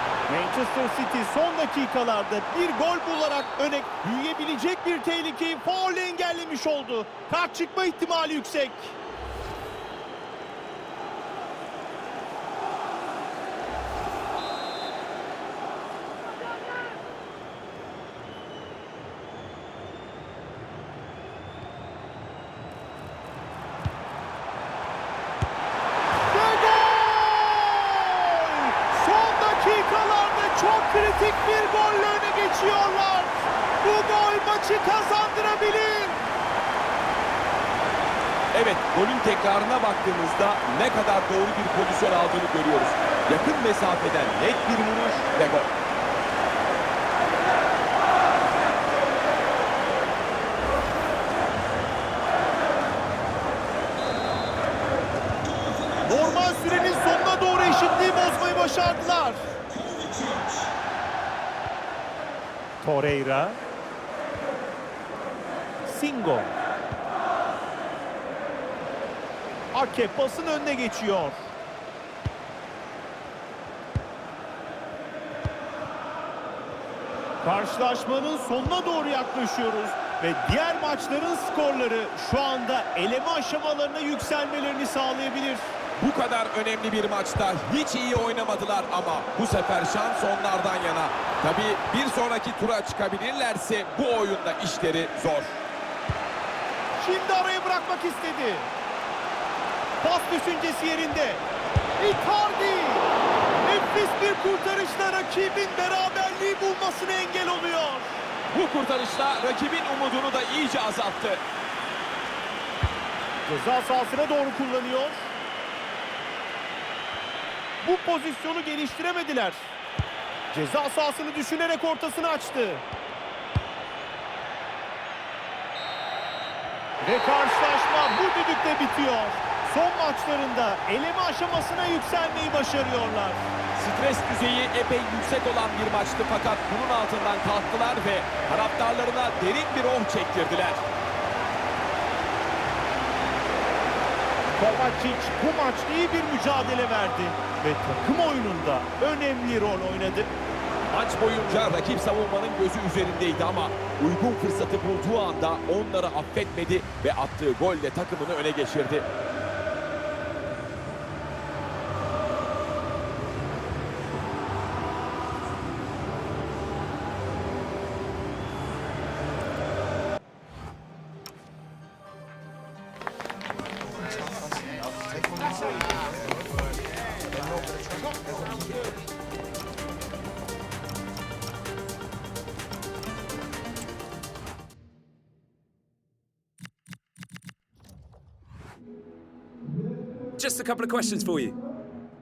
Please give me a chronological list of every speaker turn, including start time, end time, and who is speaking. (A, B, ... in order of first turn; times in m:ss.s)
0:00.3-0:09.0 A
0:26.3-0:36.3 A
0:38.5-0:45.7 B
0:55.6-0:55.9 C
0:56.0-0:59.5 A
0:59.8-1:00.6 C
1:02.8-1:03.6 A
1:05.8-1:06.6 A
1:09.7-1:11.5 A
1:17.4-1:25.7 A
1:26.0-1:35.6 B
1:37.0-1:38.7 A
1:40.0-1:41.4 A
1:42.0-1:48.2 A
1:48.5-1:51.4 B
1:53.5-1:55.3 A
1:57.8-1:59.7 A
2:00.5-2:02.8 A
2:07.0-2:13.4 A
2:13.8-2:20.8 B
2:24.6-2:30.3 A
2:30.9-2:39.0 B
3:10.4-3:11.6 C
3:10.5-3:11.3 B